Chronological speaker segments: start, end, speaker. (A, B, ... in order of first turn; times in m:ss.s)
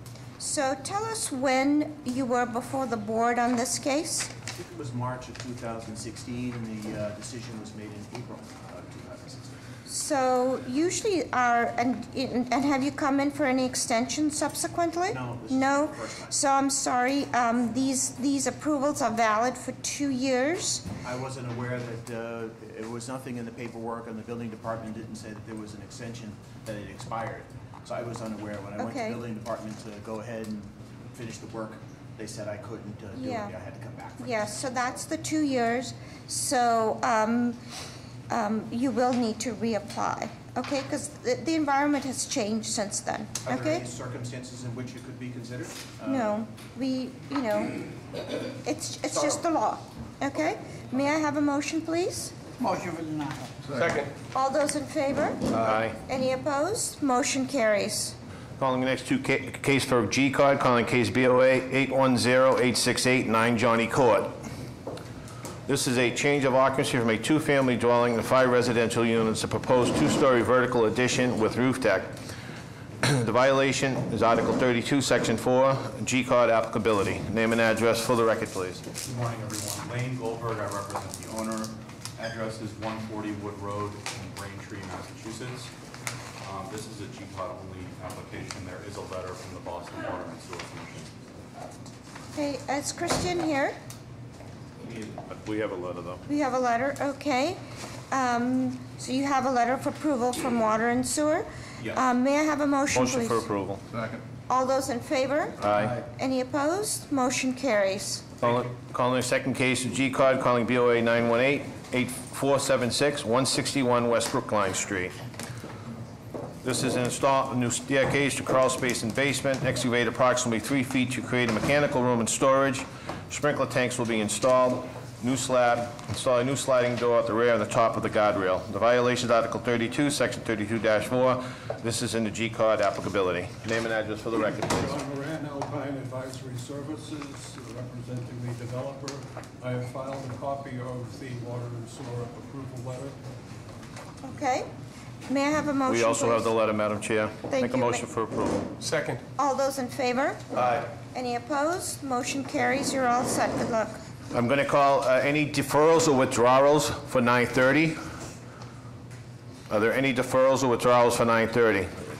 0:00.4-0:04.3 A
0:04.6-0:09.6 B
0:09.9-0:20.8 A
0:15.1-0:16.4 B
0:21.0-0:34.6 B
0:28.8-0:29.2 A
0:33.1-0:33.5 A
0:34.2-0:37.6 A
0:38.3-0:43.8 A
0:43.4-0:46.4 B
0:46.0-0:47.9 A
0:48.6-0:52.3 A
0:54.3-0:58.1 A
0:55.5-0:56.0 C
0:58.6-1:04.4 C
1:05.7-1:12.2 C
1:13.0-1:18.8 C
1:19.3-1:25.7 D
1:26.4-1:31.1 D
1:32.4-1:33.8 A
1:35.2-1:36.2 C
1:36.3-1:43.4 A
1:42.9-1:43.8 C
1:44.5-1:48.4 A
1:45.6-1:46.0 C
1:48.4-1:55.1 C
1:56.6-2:15.0 C
2:14.7-2:23.2 E
2:24.2-2:24.7 A
2:25.3-2:26.5 A
2:25.8-2:28.7 C
2:27.5-2:28.0 A
2:29.4-2:34.0 A
2:34.3-2:38.0 C
2:39.7-2:41.9 C